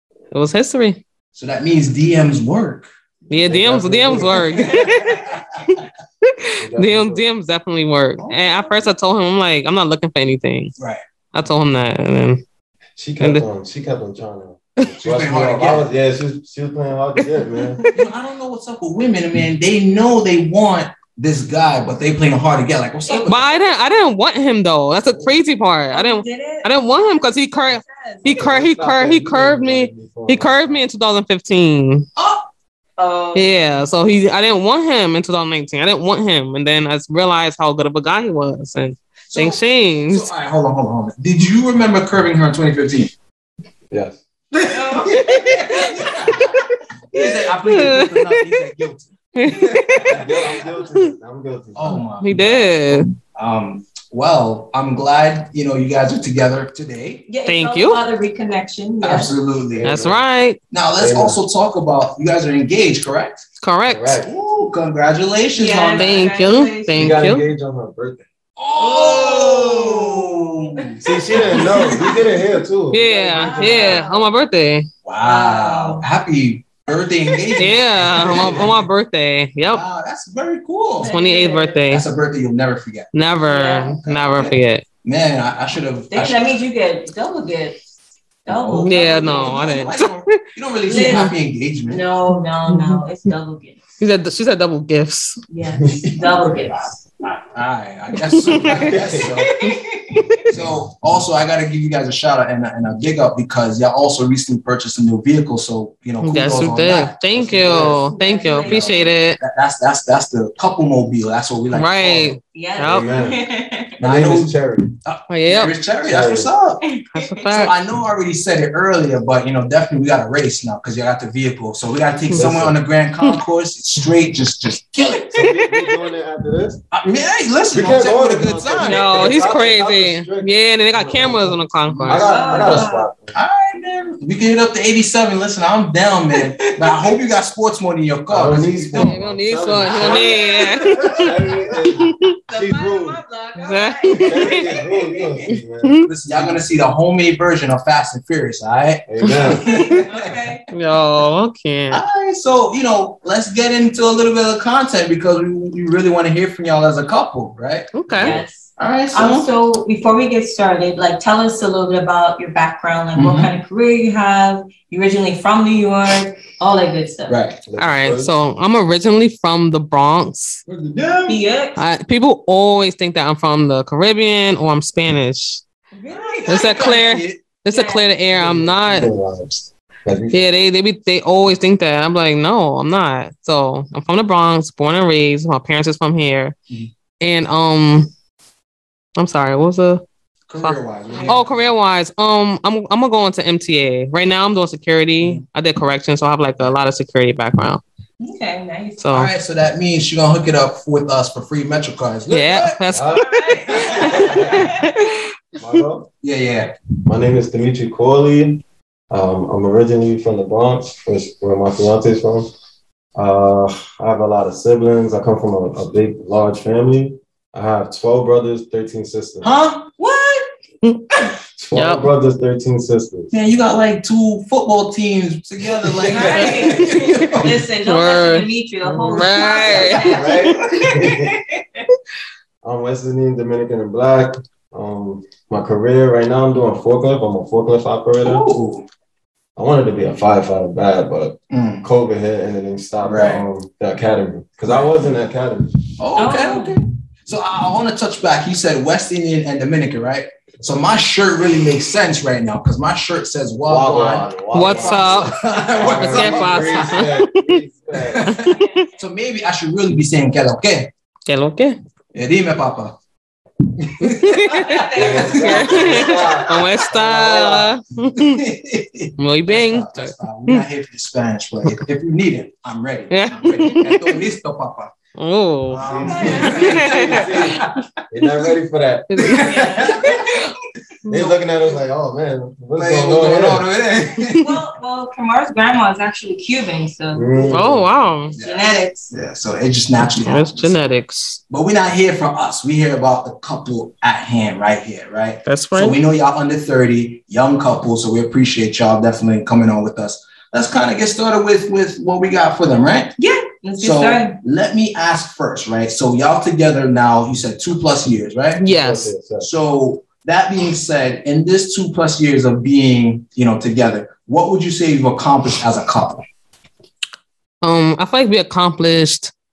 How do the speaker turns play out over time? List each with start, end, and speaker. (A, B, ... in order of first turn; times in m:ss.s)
0:00.3-0:01.0 A
0:01.4-0:02.9 B
0:03.3-0:10.8 A
0:03.4-0:04.5 C
0:04.6-0:05.6 B
0:06.6-0:07.2 C
0:08.2-0:08.9 B
0:10.8-0:11.0 B
0:11.3-0:12.4 A
0:13.0-0:17.8 C
0:13.2-0:13.5 A
0:15.0-0:15.9 B
0:17.2-0:18.1 A
0:17.9-0:23.5 B
0:23.1-0:23.4 D
0:23.3-0:32.1 A
0:25.0-0:25.3 B
0:25.9-0:27.0 D
0:27.6-0:28.3 D
0:28.3-0:30.9 C
0:32.2-0:32.4 B
0:33.0-0:33.6 D
0:33.4-0:40.3 A
0:39.3-0:43.1 B
0:43.9-0:44.2 C
0:44.5-0:50.5 B
0:44.7-0:46.3 D
0:47.2-0:48.4 A
0:49.4-0:51.1 A
0:50.0-0:52.0 C
0:51.8-0:57.2 B
0:52.2-0:53.1 A
0:57.3-0:59.3 D
0:57.5-0:58.0 A
0:59.0-1:00.0 B
0:59.8-1:00.2 C
0:59.8-1:00.6 A
1:00.7-1:03.5 B
1:01.0-1:01.4 C
1:03.6-1:04.2 A
1:03.9-1:04.4 C
1:04.2-1:06.3 B
1:05.6-1:07.2 D
1:05.9-1:07.4 A
1:06.9-1:08.3 C
1:08.6-1:12.5 B
1:08.8-1:12.2 D
1:11.0-1:14.0 C
1:12.9-1:14.9 A
1:13.3-1:14.3 D
1:15.0-1:18.8 B
1:15.2-1:16.1 D
1:17.6-1:19.8 A
1:18.3-1:18.6 C
1:19.7-1:21.1 B
1:21.0-1:21.8 D
1:21.0-1:22.0 A
1:21.9-1:23.1 B
1:23.1-1:24.8 A
1:23.5-1:24.0 D
1:24.0-1:26.5 B
1:26.1-1:27.8 D
1:28.4-1:29.7 D
1:28.5-1:32.0 B
1:28.8-1:30.3 A
1:30.9-1:31.3 D
1:30.9-1:31.3 A
1:31.9-1:33.8 D
1:32.3-1:33.0 A
1:34.0-1:35.4 A
1:35.5-1:37.0 D
1:36.0-1:39.6 B
1:38.4-1:39.0 A
1:38.8-1:39.4 C
1:39.1-1:40.3 D
1:40.5-1:48.0 B
1:46.2-1:49.4 A
1:47.4-1:48.0 C
1:47.9-1:49.2 D
1:48.6-1:52.4 B
1:51.7-1:53.1 A
1:52.5-1:54.0 D
1:52.8-1:53.4 C
1:54.0-1:56.8 B
1:54.0-1:54.9 C
1:55.3-1:55.7 A
1:56.0-1:56.5 C
1:56.8-1:57.5 D
1:57.2-1:57.7 A
1:57.5-2:05.6 B
2:02.3-2:02.8 C
2:05.4-2:06.8 C
2:05.4-2:05.9 A
2:06.9-2:09.4 B
2:07.7-2:13.4 C
2:08.8-2:12.4 A
2:11.9-2:19.2 B
2:12.2-2:13.1 D
2:18.3-2:23.2 C
2:19.0-2:21.4 A
2:19.9-2:20.3 B
2:20.1-2:21.2 D
2:21.9-2:22.3 A
2:22.5-2:25.5 D
2:23.6-2:24.6 A
2:24.1-2:26.6 C
2:25.8-2:26.1 A
2:26.0-2:30.3 B
2:29.1-2:29.8 C
2:29.2-2:29.6 A
2:29.5-2:30.6 D
2:30.7-2:32.0 A
2:31.9-2:39.5 B
2:37.9-2:38.4 A
2:38.1-2:38.4 C
2:38.2-2:47.4 D
2:43.2-2:43.5 B
2:47.3-2:47.6 B
2:47.7-2:48.4 C
2:47.8-2:50.6 A
2:50.7-2:51.4 B
2:51.3-2:51.8 D
2:51.8-2:55.6 A
2:55.9-2:56.8 D
2:56.1-2:57.4 B
2:56.5-2:59.1 A
2:57.7-2:58.0 D
2:58.3-3:00.4 C
3:00.3-3:06.6 A
3:07.2-3:08.1 A
3:09.2-3:10.0 A
3:10.5-3:11.7 B
3:10.6-3:17.8 A
3:18.2-3:19.0 D
3:19.0-3:19.3 A
3:19.1-3:22.8 B
3:22.3-3:25.8 A
3:22.9-3:23.2 C
3:23.1-3:24.9 D
3:23.7-3:24.3 B
3:23.8-3:24.8 C
3:25.6-3:26.1 C
3:26.2-3:26.7 B
3:27.1-3:32.5 C
3:33.2-3:39.5 C
3:39.4-3:39.9 B
3:40.0-3:40.5 D
3:41.6-3:43.3 C
3:41.7-3:42.1 A
3:43.3-3:47.6 B
3:46.1-3:51.8 D
3:46.2-3:46.6 C
3:46.3-3:50.5 A
3:49.6-3:49.9 B
3:50.0-3:51.3 C
3:52.6-3:58.5 C
3:58.2-3:58.9 B
3:59.6-4:05.8 C
4:01.5-4:01.8 B
4:03.0-4:03.4 B
4:04.7-4:05.0 B
4:06.0-4:17.1 B
4:06.2-4:06.8 D
4:13.7-4:18.3 C
4:14.5-4:17.5 A
4:18.0-4:20.9 B
4:18.3-4:18.8 A
4:18.6-4:18.9 D
4:21.3-4:21.8 A
4:22.1-4:23.0 B
4:23.8-4:26.0 B
4:24.0-4:28.4 A
4:24.4-4:26.2 D
4:25.0-4:27.8 C
4:26.9-4:27.5 B
4:28.1-4:34.9 B
4:29.2-4:30.7 A
4:33.1-4:34.2 A
4:35.2-4:37.5 A
4:35.7-4:38.5 B
4:35.7-4:39.7 C
4:36.0-4:37.0 D
4:39.1-4:40.4 A
4:39.2-4:40.5 B
4:39.3-4:40.2 D
4:41.0-4:41.4 A
4:41.1-4:43.7 C
4:42.8-4:44.5 B
4:44.4-4:47.6 D
4:47.1-4:48.0 C
4:47.5-4:48.4 A
4:48.4-4:50.8 B
4:48.4-4:49.1 D
4:50.2-4:51.4 A
4:51.5-5:03.2 B
4:55.5-4:56.0 A
5:03.2-5:04.4 D
5:03.8-5:08.6 B
5:08.6-5:09.5 C
5:08.6-5:09.1 A
5:09.4-5:16.2 B
5:17.6-5:19.3 A